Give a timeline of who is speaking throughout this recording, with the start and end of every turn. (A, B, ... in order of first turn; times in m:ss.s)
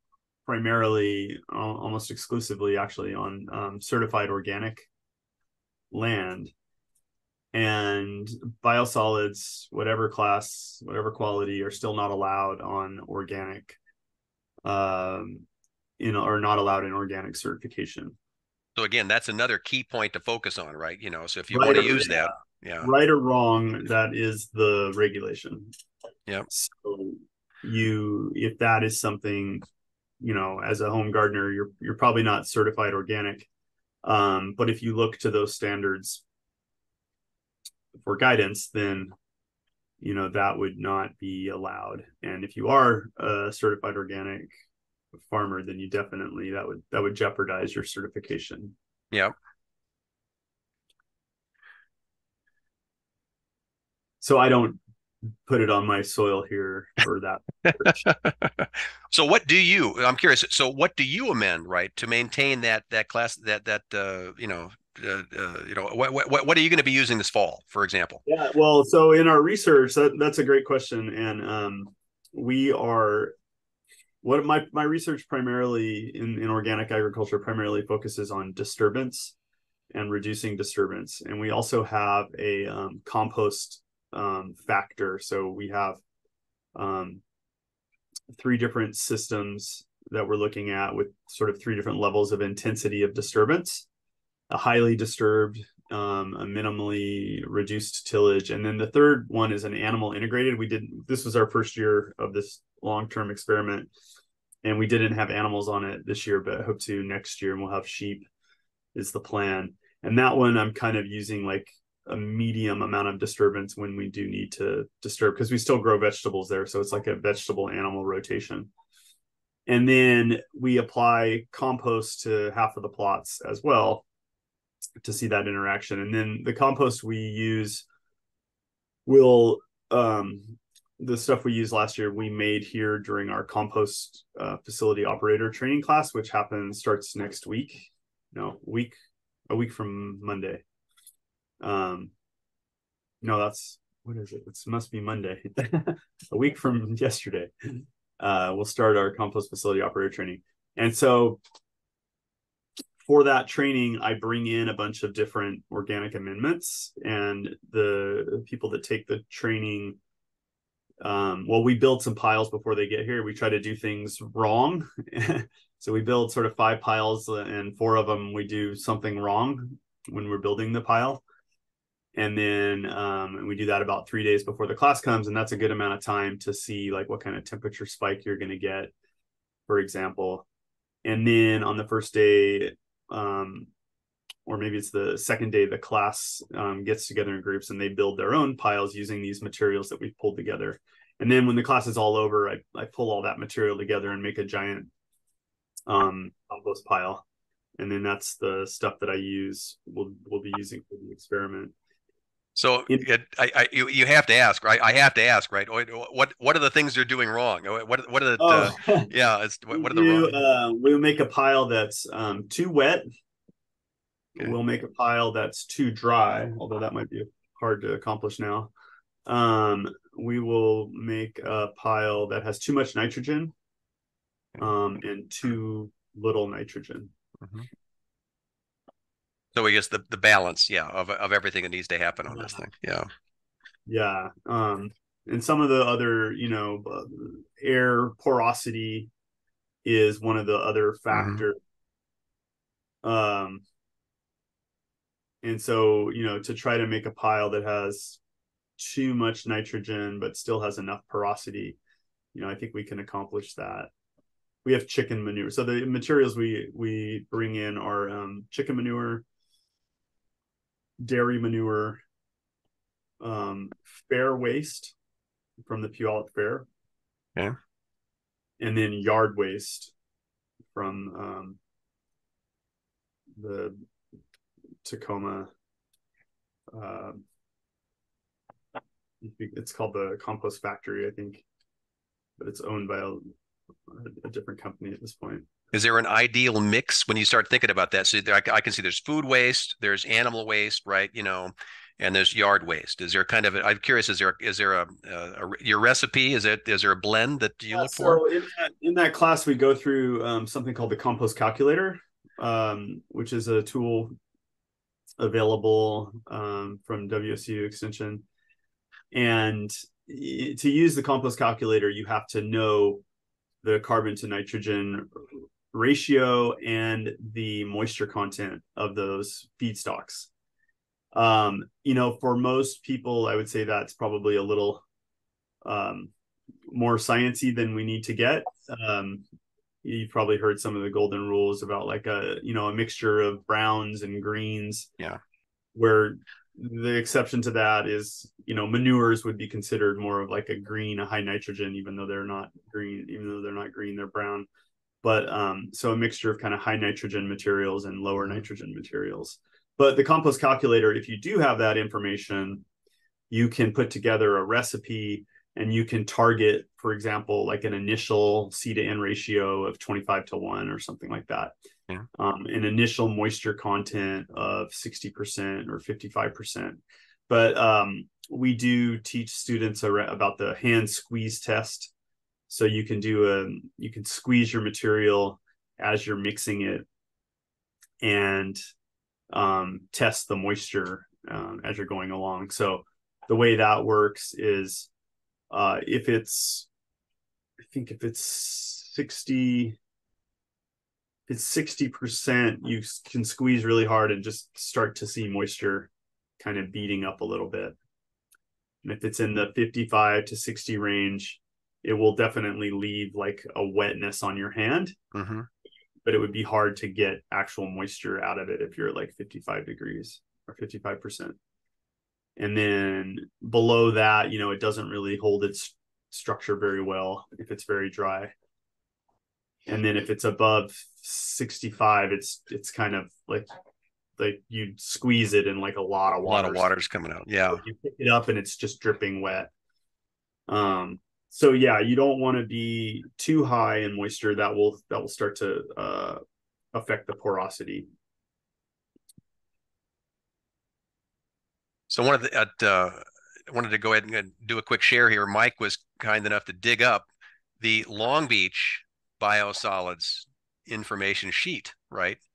0:00.4-0:04.9 A
0:05.9-0:06.5 A
0:07.5-0:13.8 A
0:14.6-0:15.4 A
0:16.0-0:18.2 A
0:18.8-0:22.9 B
0:21.5-0:25.7 A
0:26.5-0:29.6 A
0:30.2-0:33.5 A
0:34.0-0:36.2 A
0:38.0-0:39.1 A
0:40.0-0:44.5 A
0:45.2-0:48.7 A
0:54.2-0:54.8 A
0:55.5-0:58.0 A
0:58.0-1:08.2 B
1:08.2-1:13.3 A
1:14.2-1:19.4 A
1:19.9-1:26.0 A
1:26.7-1:27.2 A
1:28.3-1:33.8 A
1:34.5-1:43.9 A
1:44.6-1:48.3 A
1:48.9-1:58.7 A
1:59.7-2:04.0 A
2:05.0-2:07.8 A
2:09.0-2:19.0 A
2:19.5-2:20.6 A
2:21.6-2:22.1 A
2:23.2-2:27.5 A
2:28.2-2:31.4 A
2:33.0-2:40.0 A
2:41.0-2:51.2 A
2:52.1-2:58.9 A
2:59.7-3:00.4 A
3:01.0-3:03.7 A
3:04.4-3:14.9 A
3:15.9-3:17.2 A
3:17.8-3:21.7 A
3:22.6-3:30.4 B
3:28.4-3:29.1 A
3:29.7-3:33.0 A
3:34.4-3:38.7 A
3:39.2-3:43.5 A
3:44.6-3:47.1 A
3:47.4-3:47.7 B
3:49.5-3:53.1 B
3:52.3-3:52.6 A
3:53.9-3:59.1 A
3:59.8-4:01.6 A
4:01.1-4:01.4 B
4:03.0-4:03.6 A
4:05.4-4:08.2 A
4:08.8-4:11.8 A
4:12.3-4:13.9 A
4:14.6-4:19.2 A
4:21.0-4:22.0 A
4:23.2-4:24.9 A
4:25.6-4:26.7 A
4:28.6-4:29.9 A
4:30.7-4:31.6 A
4:33.4-4:33.8 A
4:34.8-4:35.5 A
4:36.7-4:37.2 A
4:39.2-4:41.4 A
4:42.4-4:43.3 A
4:43.9-4:45.5 A
4:45.7-4:58.2 B
4:57.7-5:04.1 A
5:05.2-5:08.2 A
5:09.1-5:13.0 A
5:13.6-5:15.1 A
5:15.7-5:20.3 A
5:21.1-5:24.8 A
5:25.6-5:26.1 A
5:26.7-5:29.2 A
5:29.8-5:34.9 A
5:35.7-5:44.5 A
5:45.0-5:52.6 A
5:53.3-6:01.5 A
6:02.1-6:11.9 A
6:12.5-6:16.8 A
6:18.0-6:18.6 A
6:19.3-6:24.9 A
6:25.5-6:26.7 A
6:27.6-6:29.8 A
6:31.3-6:37.8 A
6:38.8-6:45.0 A
6:45.1-6:45.5 B
6:46.0-6:51.4 A
6:52.4-6:58.3 A
6:59.7-7:03.5 A
7:04.2-7:06.7 A
7:06.2-7:07.6 B
7:07.5-7:09.5 A
7:10.5-7:16.2 A
7:16.7-7:17.9 A
7:21.9-7:27.1 B
7:27.6-7:32.2 B